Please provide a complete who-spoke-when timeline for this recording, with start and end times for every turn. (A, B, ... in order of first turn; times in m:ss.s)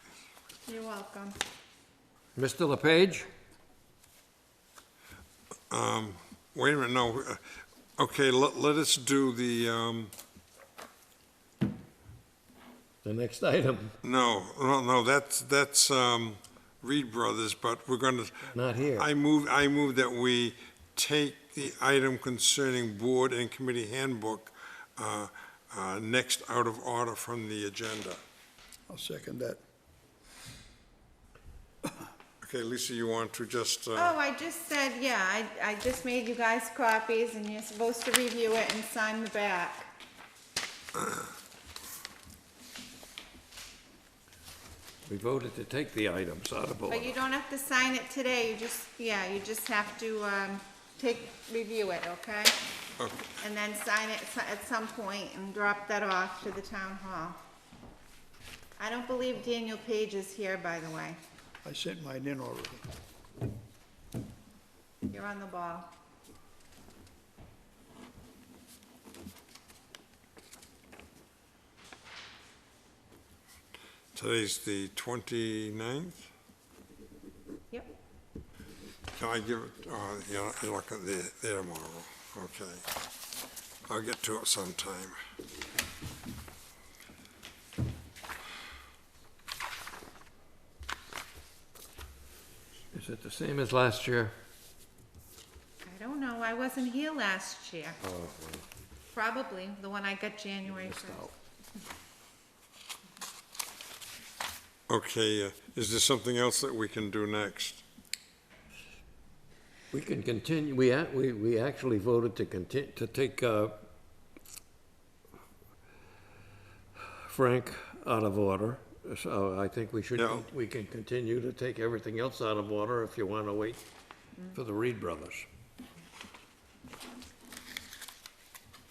0:00.6-0:01.4 A
0:02.4-0:03.3 B
0:05.7-0:07.4 C
0:08.0-0:10.1 C
0:13.0-0:14.0 B
0:14.0-0:28.2 C
0:18.5-0:19.1 B
0:28.9-0:29.6 D
0:32.4-0:34.2 C
0:34.0-0:39.9 A
0:45.1-0:47.1 B
0:46.9-0:52.5 A
0:53.0-0:53.3 C
0:53.4-0:57.4 A
0:58.8-1:01.2 A
1:01.6-1:02.8 D
1:05.1-1:05.9 A
1:14.2-1:16.3 C
1:19.2-1:22.8 C
1:23.9-1:25.2 C
1:32.9-1:34.3 B
1:35.8-1:38.0 A
1:38.0-1:38.6 B
1:39.1-1:41.3 A
1:40.7-1:41.3 B
1:44.9-1:47.8 C
1:49.9-1:53.9 B
1:57.1-2:03.8 B
2:00.2-2:00.4 C
2:04.5-2:05.5 B